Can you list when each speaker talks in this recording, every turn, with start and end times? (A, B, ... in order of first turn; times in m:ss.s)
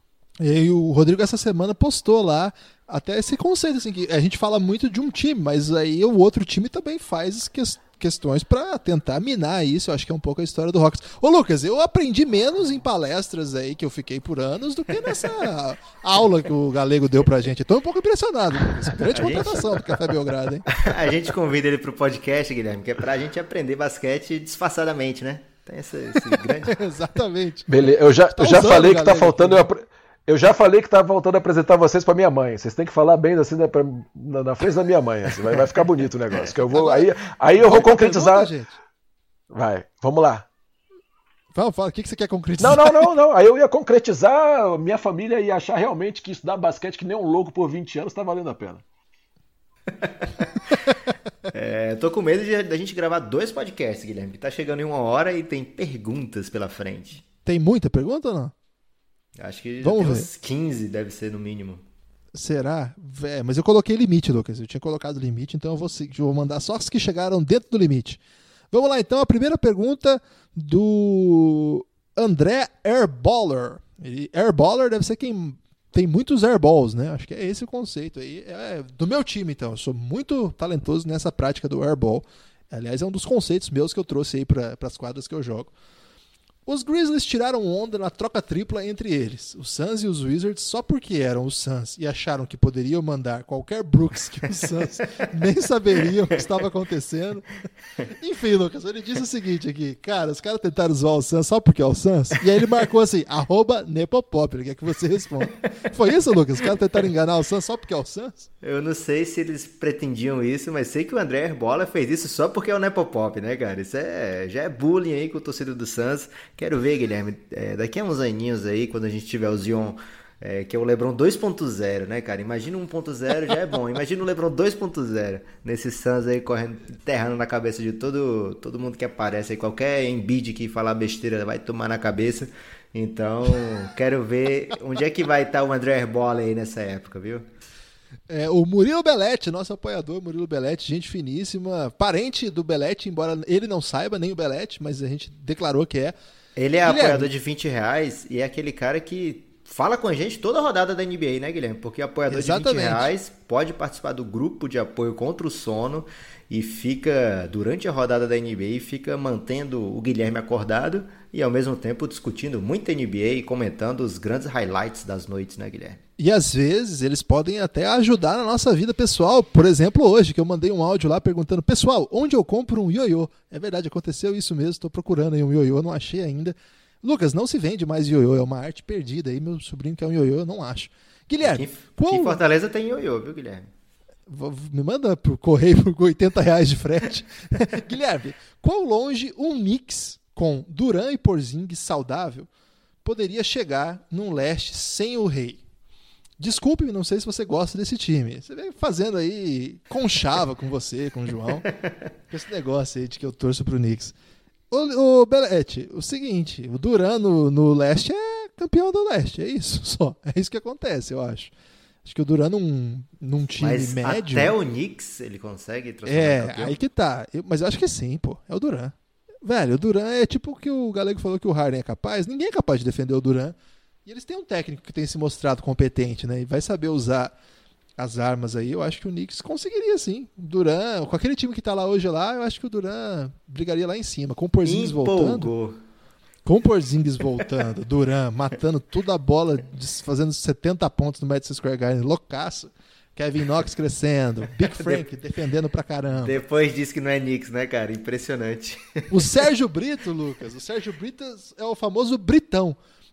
0:00.4-0:20.9 A
0:19.1-0:20.0 B
0:20.7-0:26.8 B
0:26.6-0:27.7 A
0:27.7-0:38.5 C
0:28.4-0:29.6 A
0:36.7-0:38.8 A
0:39.5-0:40.5 C
0:41.5-0:43.1 A
0:42.6-0:48.8 C
0:50.0-0:50.8 B
0:51.5-0:57.2 B
0:57.5-0:58.5 A
0:59.4-1:01.8 B
0:59.8-1:00.3 A
1:02.3-1:08.2 A
1:08.7-1:25.7 A
1:26.7-1:48.5 A
1:48.6-2:17.5 B
2:18.3-2:26.2 A
2:26.6-2:46.0 B
2:26.8-2:27.3 A
2:32.3-2:33.1 A
2:46.2-3:02.4 A
3:01.4-3:03.7 B
3:04.3-3:12.5 A
3:13.0-3:15.6 A
3:16.4-3:21.7 A
3:22.3-3:24.1 A
3:24.7-3:31.5 A
3:32.0-3:34.5 A
3:33.6-3:36.8 B
3:36.1-3:43.6 A
3:44.1-3:47.3 A
3:48.0-3:55.5 A
3:54.6-3:55.8 B
3:56.5-4:06.4 A
4:04.7-4:05.0 B
4:06.2-4:09.3 B
4:09.1-4:12.8 A